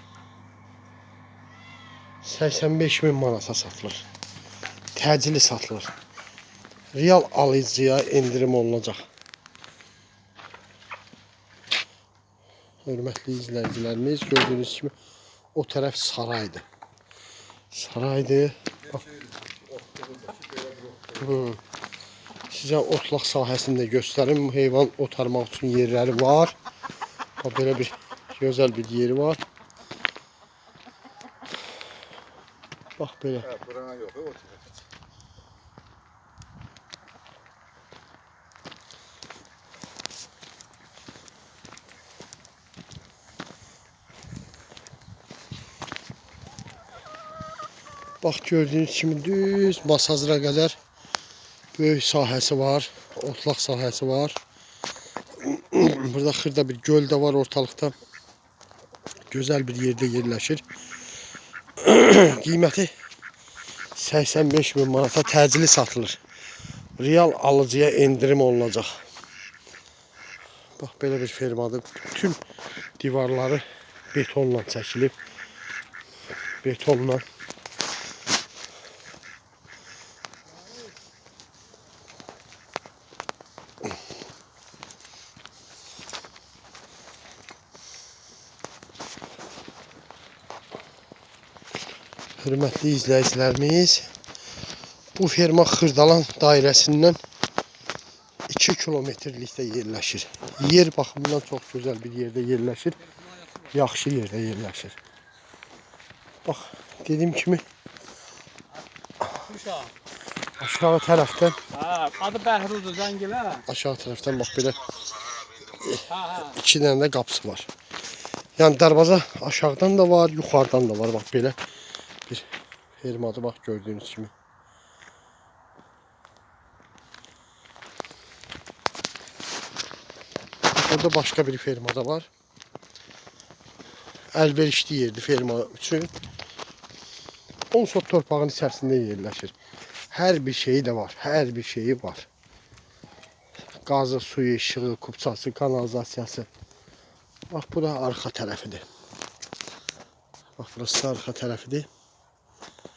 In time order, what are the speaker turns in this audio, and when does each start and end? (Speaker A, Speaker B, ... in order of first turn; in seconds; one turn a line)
Speaker A: 2.2-4.0
Speaker A: 4.9-5.9
Speaker A: 6.9-9.0
Speaker A: 12.8-14.9
Speaker A: 15.5-16.6
Speaker A: 17.7-19.0
Speaker B: 19.1-21.2
Speaker A: 21.2-21.6
Speaker A: 22.5-26.6
Speaker A: 27.4-29.4
Speaker A: 33.0-33.5
Speaker B: 33.5-34.7
Speaker A: 48.2-50.8
Speaker A: 51.8-54.4
Speaker A: 55.4-57.9
Speaker A: 59.3-60.6
Speaker A: 61.8-62.9
Speaker A: 63.9-66.2
Speaker A: 67.0-68.9
Speaker A: 70.8-72.4
Speaker A: 73.0-75.2
Speaker A: 76.6-77.2
Speaker A: 92.4-94.1
Speaker A: 95.2-97.2
Speaker A: 98.5-103.0
Speaker A: 103.7-105.0
Speaker A: 106.4-107.6
Speaker C: 109.3-109.9
Speaker A: 110.6-111.6
Speaker C: 111.7-113.6
Speaker A: 113.7-117.7
Speaker C: 116.1-116.5
Speaker A: 118.6-121.6
Speaker A: 122.3-124.3
Speaker A: 130.7-132.3
Speaker A: 134.3-136.1
Speaker A: 137.7-139.5
Speaker A: 140.1-142.3
Speaker A: 143.8-146.5
Speaker A: 147.5-148.8
Speaker A: 150.6-151.9